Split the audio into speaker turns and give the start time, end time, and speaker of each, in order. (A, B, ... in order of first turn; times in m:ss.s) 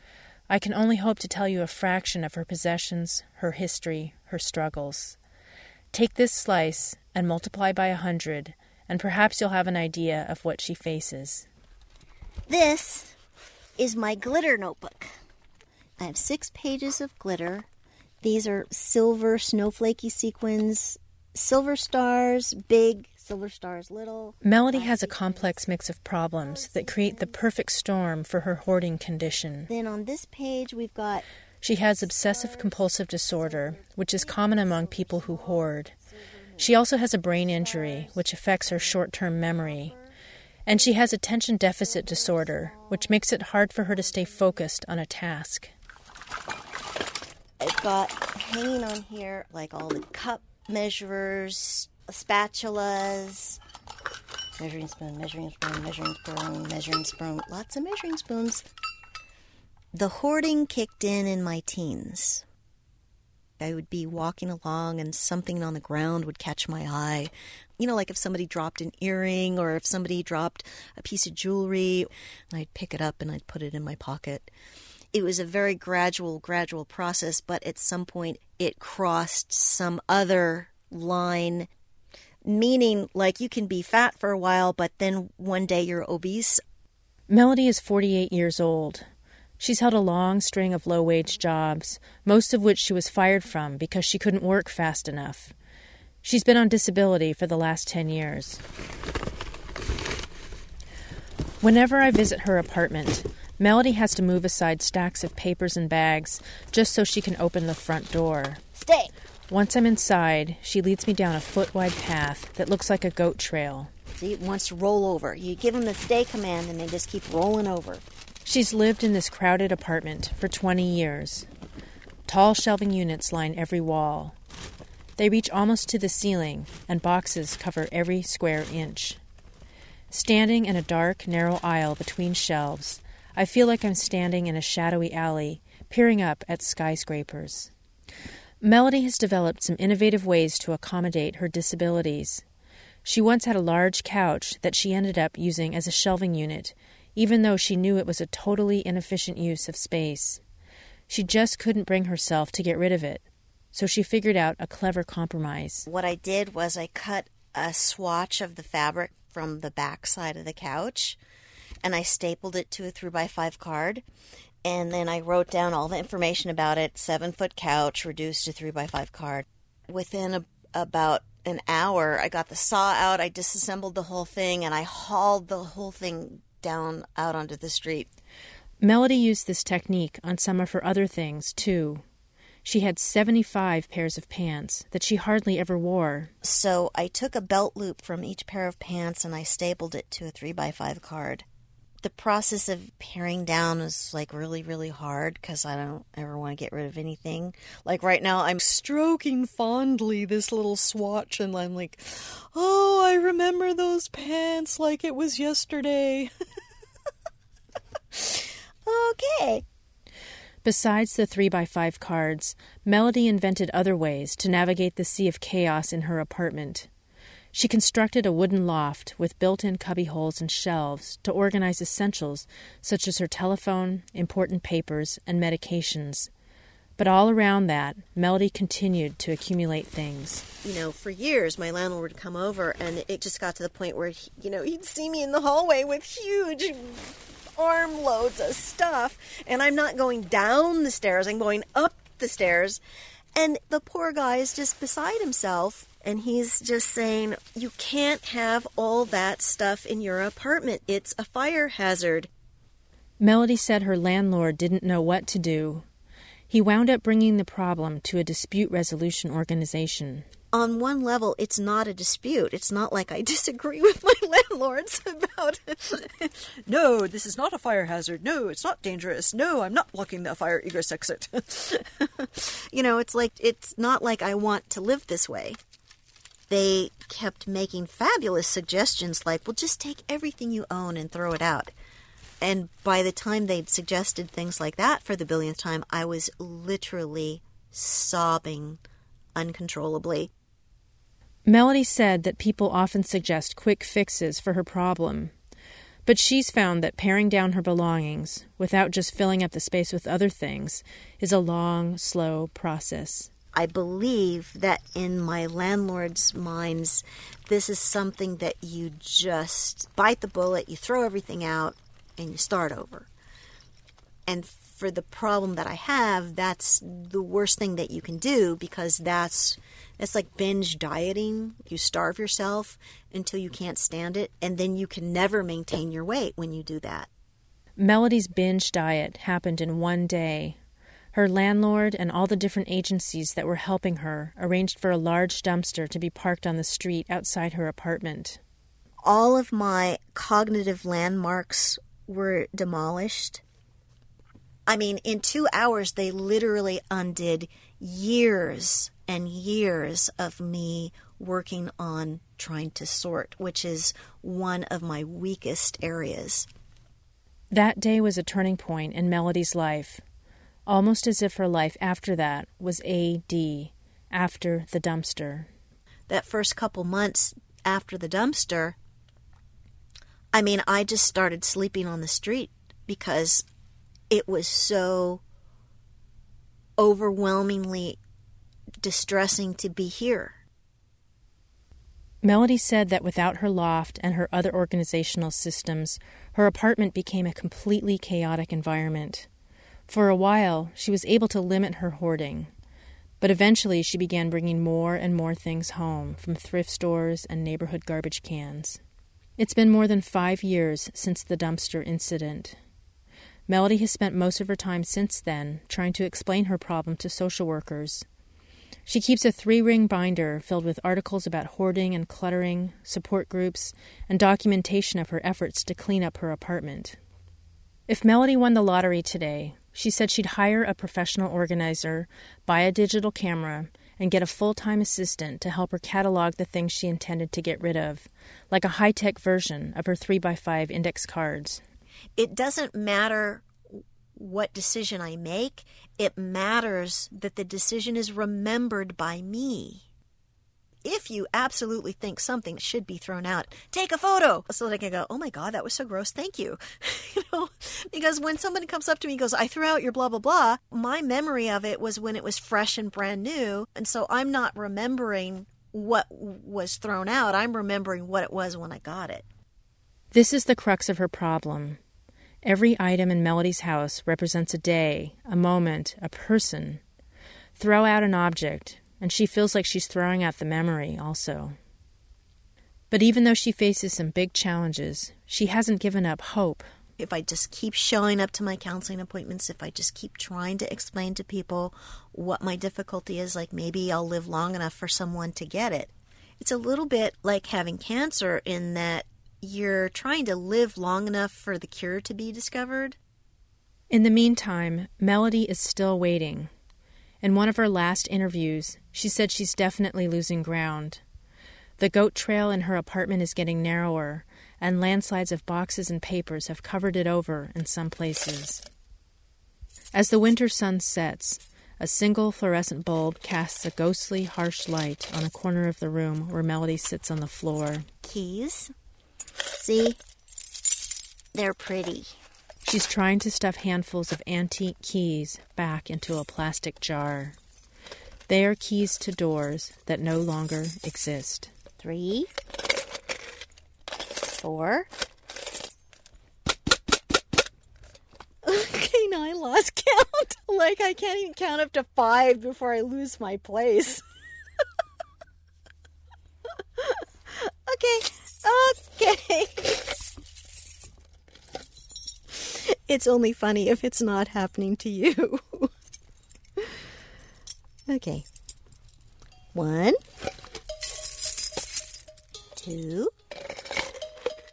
0:00.5-0:05.2 A
0:05.9-0:11.5 A
0:12.5-0:13.2 B
0:13.8-0:15.1 B
0:16.0-0:17.7 B
0:18.2-0:25.5 B
0:24.4-0:29.7 A
0:26.6-0:27.0 B
0:29.7-0:31.2 B
0:31.6-0:36.0 A
0:34.3-0:35.6 B
0:36.6-0:39.9 A
0:37.5-0:38.2 B
0:39.6-0:40.1 B
0:40.7-0:45.7 A
0:41.9-0:42.9 B
0:47.6-0:53.6 B
0:54.6-0:56.4 B
0:57.1-0:58.6 B
0:59.9-1:02.4 B
1:03.6-1:14.5 B
1:15.1-1:21.7 B
1:22.4-1:26.6 B
1:27.3-1:29.1 A
1:29.6-1:35.5 A
1:36.2-1:38.6 A
1:41.6-1:48.6 A
1:48.8-1:49.1 B
1:49.5-1:53.9 A
1:54.2-1:58.0 B
1:58.4-2:01.5 A
2:02.3-2:04.4 A
2:05.2-2:09.2 A
2:10.1-2:17.7 A
2:18.6-2:22.4 A
2:23.0-2:30.4 A
2:31.1-2:33.2 A
2:33.7-2:35.9 A
2:35.9-2:41.2 B
2:41.8-2:44.0 B
2:44.6-2:58.1 B
2:58.8-3:02.0 A
3:02.6-3:06.3 A
3:06.4-3:11.4 B
3:12.0-3:26.3 B
3:28.1-3:29.6 B
3:30.6-3:36.9 A
3:37.5-3:46.3 A
3:47.0-3:50.4 A
3:50.6-4:02.8 B
4:03.4-4:12.3 B
4:13.2-4:15.8 A
4:16.5-4:20.3 A
4:20.5-4:35.6 B
4:36.5-4:41.7 B
4:42.4-4:48.8 B
4:49.4-4:50.3 B
4:51.5-4:55.3 A
4:56.1-5:03.3 A
5:03.5-5:13.1 B
5:14.3-5:27.1 B
5:27.8-5:30.6 A
5:31.1-5:38.4 A
5:39.0-5:43.4 B
5:44.7-5:56.5 B
5:57.5-6:00.0 A
6:00.7-6:05.5 A
6:06.1-6:08.8 B
6:10.3-6:13.4 B
6:14.1-6:15.2 B
6:16.8-6:18.0 B
6:18.8-6:20.4 B
6:22.2-6:29.3 A
6:29.9-6:32.5 A
6:33.2-6:38.8 A
6:39.4-6:42.6 A
6:43.5-6:48.1 A
6:48.9-6:57.0 A
6:57.9-7:11.6 A
7:12.2-7:13.5 B
7:14.2-7:19.9 B
7:20.8-7:39.3 B
7:40.1-7:41.8 A
7:42.4-7:46.8 A
7:47.6-7:51.6 A
7:52.9-7:56.7 A
7:57.0-8:13.0 B
8:13.9-8:16.5 A
8:17.2-8:21.0 A
8:21.8-8:28.6 A
8:29.9-8:37.9 A
8:38.0-8:38.7 B
8:39.6-8:40.0 B
8:41.3-8:42.2 B
8:42.6-8:47.4 A
8:48.3-8:51.5 A
8:51.8-8:52.3 B
8:54.2-8:54.9 B
8:58.4-9:04.0 B
9:06.8-9:09.9 B
9:12.3-9:15.7 B
9:17.9-9:18.2 B
9:19.5-9:20.0 B
9:22.6-9:23.1 B